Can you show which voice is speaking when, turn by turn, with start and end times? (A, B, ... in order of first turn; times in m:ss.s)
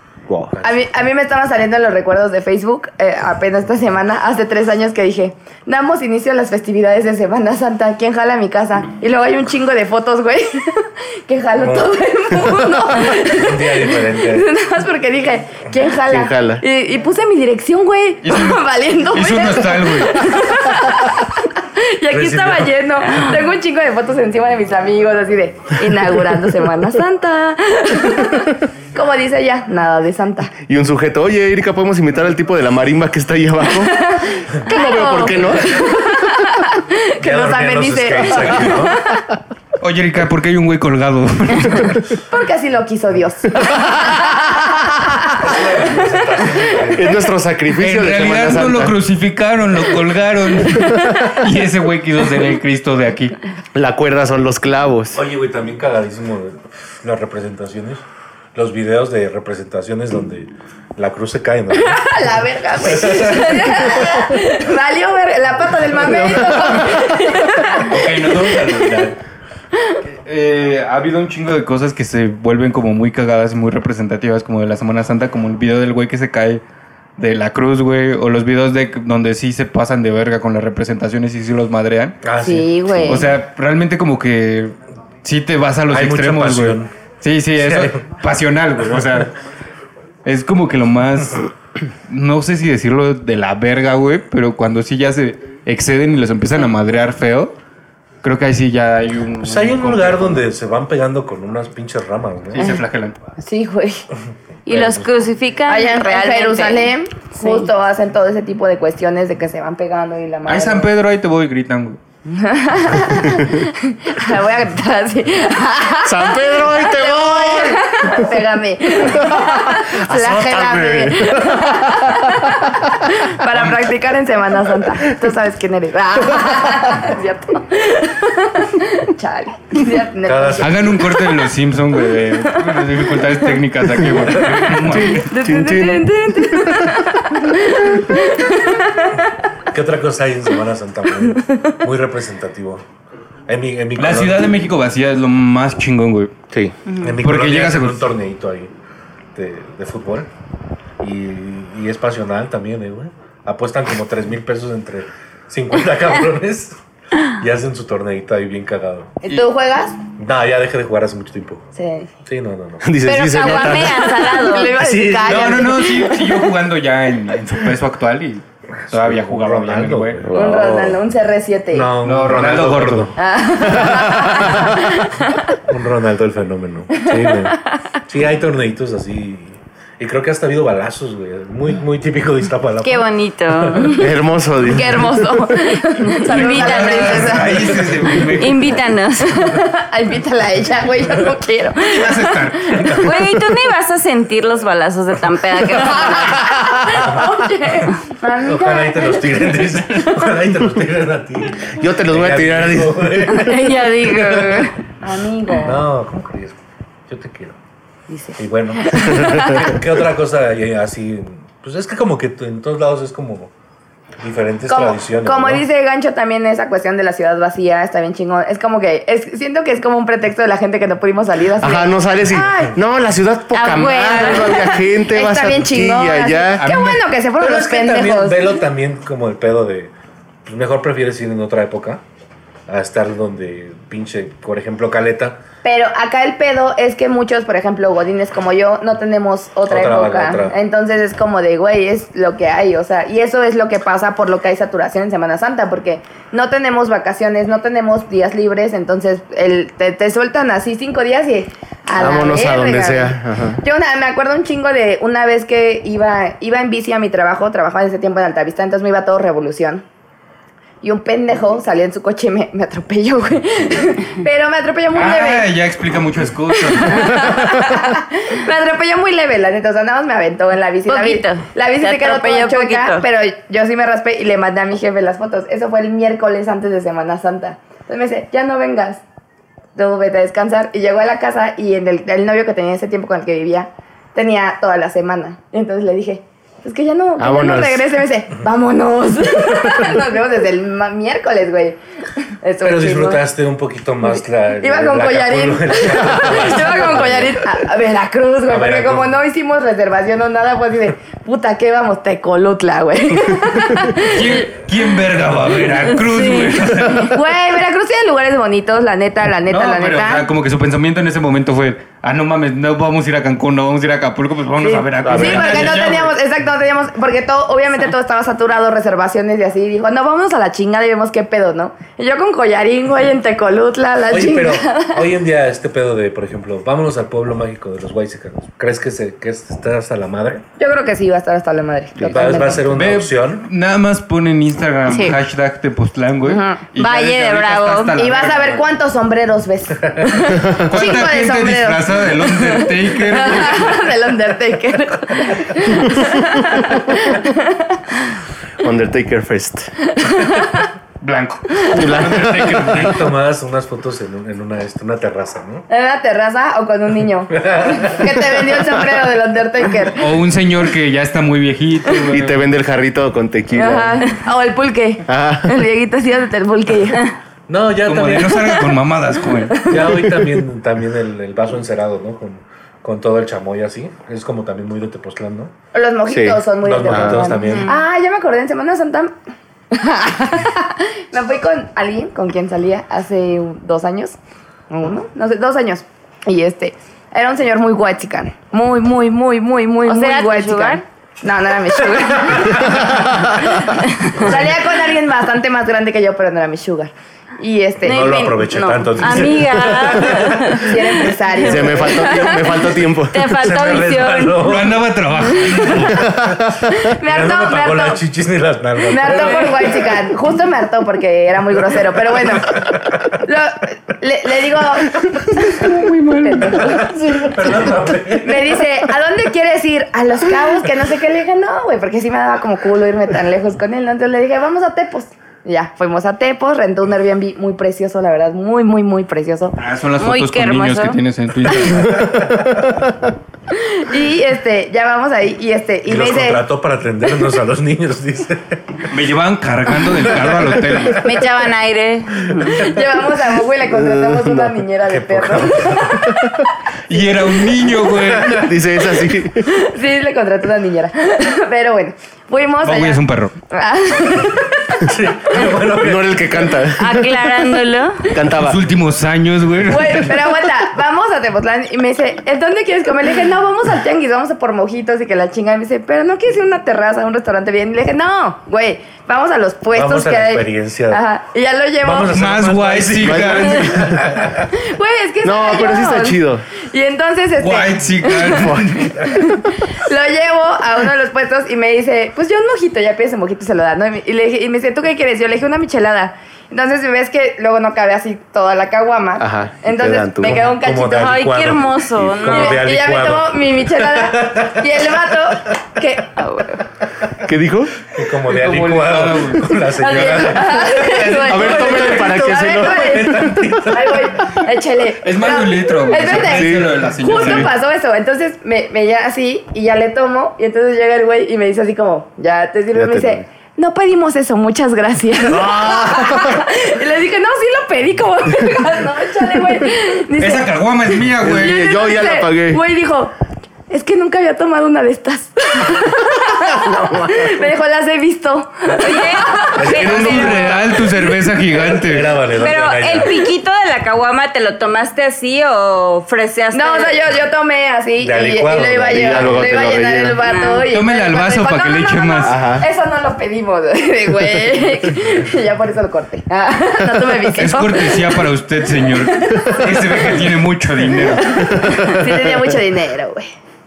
0:00.5-0:00.8 A
0:00.6-0:30.5 B
0:11.6-0:12.0 A
0:13.0-0:14.5 A
0:16.1-0:16.6 C
0:18.2-0:20.4 D
0:22.1-0:22.8 A
0:30.6-0:33.9 C
0:33.7-0:39.2 B
0:34.6-0:35.8 C
0:37.2-0:39.0 A
0:39.8-0:42.0 D
0:42.3-0:46.0 B
0:45.4-0:47.2 A
0:46.9-0:49.0 C
0:47.7-0:53.4 D
0:50.7-0:51.3 C
0:53.7-0:55.2 C
0:55.1-0:58.0 A
0:58.5-1:02.2 A
1:01.8-1:08.6 B
1:02.8-1:04.3 A
1:06.0-1:07.0 C
1:07.8-1:09.2 D
1:10.0-1:16.6 D
1:17.2-1:22.2 D
1:22.2-1:23.3 A
1:22.4-1:23.3 B
1:23.0-1:29.3 D
1:25.9-1:26.9 A
1:27.6-1:28.0 A
1:30.2-1:31.5 D
1:32.1-1:37.5 D
1:38.2-1:40.4 D
1:39.4-1:42.7 A
1:42.5-1:43.2 D
1:43.4-1:44.0 B
1:44.6-1:47.7 E
1:44.7-1:45.1 A
1:45.7-1:50.9 B
1:50.4-1:52.0 D
1:52.3-2:11.1 B
1:56.0-1:58.2 C
1:59.1-2:02.3 C
2:03.5-2:03.9 D
2:10.2-2:11.0 A
2:10.6-2:15.3 D
2:14.4-2:14.8 A
2:15.0-2:17.0 C
2:15.3-2:19.2 B
2:15.4-2:16.6 E
2:19.7-2:22.8 A
2:23.5-2:24.6 A
2:24.0-2:26.3 D
2:27.0-2:28.7 A
2:27.2-2:28.1 D
2:29.3-2:30.3 A
2:31.0-2:36.8 A
2:37.3-2:39.1 A
2:39.2-2:40.0 B
2:40.2-2:41.7 A
2:41.8-2:42.1 B
2:42.2-2:42.8 A
2:42.8-2:44.2 C
2:43.0-2:44.8 E
2:43.4-2:46.5 B
2:44.7-2:45.7 A
2:45.2-2:50.2 D
2:48.8-2:50.4 A
2:50.2-2:51.0 C
2:50.3-2:51.9 B
2:51.7-2:53.2 A
2:52.0-2:53.1 D
2:53.2-2:55.5 B
2:53.8-2:54.7 C
2:55.7-3:03.9 A
2:57.0-2:57.6 B
3:02.8-3:04.1 E
3:03.9-3:05.3 C
3:04.6-3:07.9 B
3:06.0-3:07.4 E
3:06.3-3:08.8 D
3:08.4-3:09.6 E
3:09.4-3:13.0 B
3:11.8-3:13.1 D
3:13.0-3:16.5 E
3:15.8-3:19.6 B
3:18.4-3:24.7 A
3:21.8-3:23.2 C
3:23.3-3:24.7 E
3:25.0-3:25.8 B
3:25.6-3:27.6 A
3:28.1-3:29.8 B
3:28.4-3:33.5 A
3:34.2-3:35.6 A
3:34.7-3:42.8 B
3:41.6-3:46.7 C
3:43.5-3:44.7 E
3:44.1-3:48.6 B
3:46.6-3:47.0 D
3:47.4-3:49.9 A
3:50.4-3:52.0 A
3:52.7-3:55.4 A
3:55.6-4:19.8 B
3:59.7-4:00.6 A
4:12.0-4:13.6 C
4:20.8-4:25.5 B
4:24.9-4:27.4 D
4:26.6-4:39.0 B
4:30.9-4:33.0 E
4:39.8-4:51.8 B
4:47.2-4:47.8 C
4:52.4-4:53.2 B
4:52.6-4:57.6 A
4:54.6-5:04.5 B
4:58.4-4:59.2 A
5:04.0-5:07.2 D
5:06.1-5:06.6 E
5:07.0-5:10.3 B
5:09.5-5:16.1 D
5:14.6-5:25.1 B
5:15.0-5:15.8 C
5:24.1-5:30.4 A
5:30.6-5:32.7 B
5:32.0-5:33.4 A
5:32.7-5:38.6 D
5:34.9-5:35.2 E
5:36.2-5:36.6 B
5:36.8-5:38.0 E
5:38.0-5:48.0 B
5:40.6-5:43.8 D
5:48.6-5:49.7 C
5:49.9-5:50.7 B
5:51.0-5:53.0 D
5:51.7-5:52.9 C
5:52.7-5:55.7 A
5:55.7-6:00.0 B
5:57.3-5:58.7 A
6:00.0-6:02.5 D
6:02.1-6:04.0 C
6:03.5-6:07.1 B
6:05.1-6:05.5 C
6:07.5-6:08.5 A
6:07.8-6:09.8 D
6:09.6-6:10.2 B
6:09.7-6:15.5 A
6:15.7-6:19.1 B
6:16.1-6:17.2 C
6:16.6-6:17.7 A
6:19.7-6:24.2 B
6:24.7-6:38.5 B
6:29.8-6:30.8 E
6:32.6-6:33.6 C
6:33.8-6:34.2 E
6:37.8-6:40.6 A
6:37.9-6:42.6 E
6:40.5-6:42.8 B
6:41.4-6:43.3 C
6:43.1-6:44.5 E
6:43.3-6:44.8 A
6:44.4-6:46.1 D
6:46.1-6:49.8 A
6:46.7-6:48.0 B
6:48.9-6:57.0 B
6:55.6-6:56.8 D
6:56.6-6:58.6 A
6:58.2-7:09.6 B
7:09.6-7:12.0 D
7:10.0-7:11.0 E
7:13.5-7:16.4 B
7:15.8-7:18.8 A
7:18.9-7:21.0 D
7:21.0-7:22.6 E
7:22.6-7:26.0 B
7:23.7-7:24.6 C
7:24.9-7:26.1 A
7:25.9-7:26.4 C
7:26.9-7:28.5 D
7:28.3-7:29.4 C
7:29.4-7:35.6 B
7:32.6-7:33.3 D
7:34.8-7:36.7 A
7:35.8-7:37.0 C
7:36.8-7:38.1 E
7:38.1-7:38.6 C
7:38.3-7:40.3 D
7:39.6-7:52.1 B
7:49.7-7:51.0 A
7:51.8-7:54.6 A
7:52.1-7:53.8 D
7:53.0-7:54.0 C
7:54.6-8:11.2 B
7:55.2-7:56.4 C
7:57.4-7:59.1 D
7:58.3-7:58.8 C
8:09.2-8:10.5 C
8:10.2-8:14.6 A
8:10.9-8:12.7 E
8:12.2-8:16.5 B
8:16.2-8:16.6 E
8:17.2-8:17.8 C
8:17.9-8:24.1 A
8:18.3-8:21.8 D
8:19.8-8:40.5 B
8:21.2-8:23.4 C
8:25.0-8:27.5 D
8:26.2-8:26.7 C
8:32.7-8:33.2 C
8:35.3-8:36.4 C
8:40.2-8:41.7 D
8:41.2-8:42.6 C
8:41.2-8:43.1 B
8:43.7-8:49.8 B
8:46.6-8:47.1 C
8:48.8-8:50.6 E
8:49.6-8:50.8 A
8:49.8-8:52.2 D
8:51.4-8:53.3 A
8:52.3-8:57.0 E
8:56.5-9:08.2 B
8:58.0-8:59.7 A
8:58.9-9:00.2 C
9:00.2-9:00.6 E
9:00.7-9:02.3 D
9:02.2-9:02.6 C
9:07.4-9:11.7 D
9:08.8-9:10.0 B
9:11.0-9:13.3 B
9:11.3-9:12.4 C